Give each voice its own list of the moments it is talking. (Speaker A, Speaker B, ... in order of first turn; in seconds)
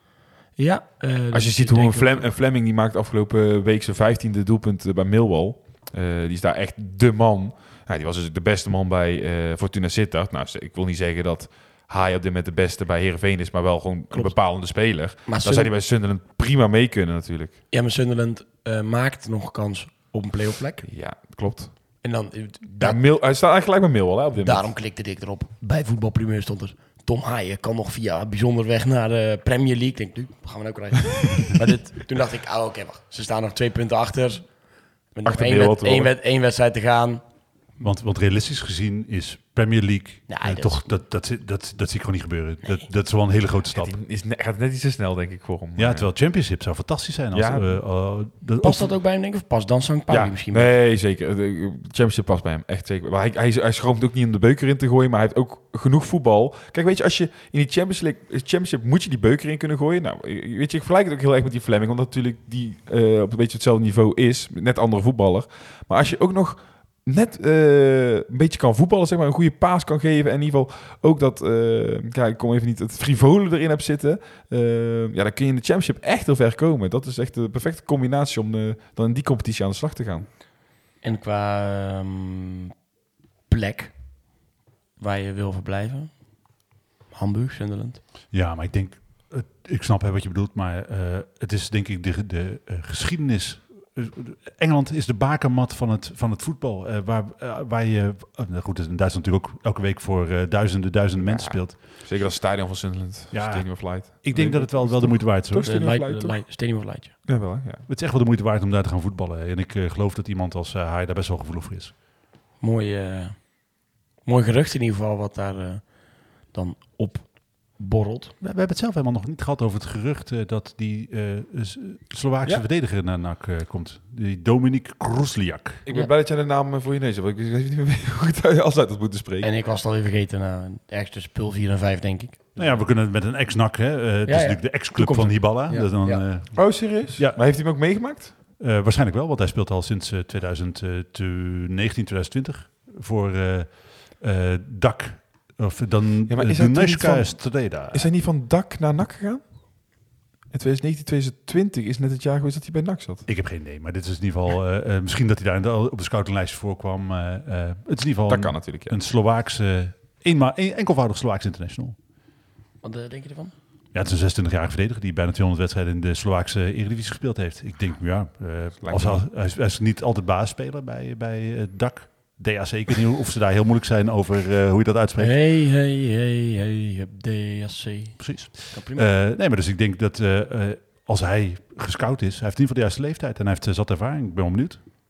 Speaker A: 0.6-2.3, 14.1-15.7, 17.7-20.9, 22.0-23.0, 24.4-37.2, 40.3-40.8, 48.6-50.7, 81.0-82.7, 83.5-84.2, 85.0-86.5, 87.1-88.0, 105.6-107.1, 112.6-118.3, 129.4-132.5, 134.2-136.3, 162.8-163.5, 175.2-179.1
Speaker B: 1.3-17.6, 20.8-22.1, 22.7-24.7, 35.2-36.1, 43.7-46.1, 47.3-48.0, 50.1-80.3, 101.2-107.8, 125.8-129.5, 132.6-132.8, 136.6-138.3, 146.3-153.3, 158.3-159.0, 168.8-169.3
Speaker C: 37.8-44.0, 45.8-48.9, 88.3-101.8, 103.3-105.8, 107.8-111.9, 118.4-125.8, 132.6-148.1, 153.2-161.9, 163.9-175.4, 178.2-184.8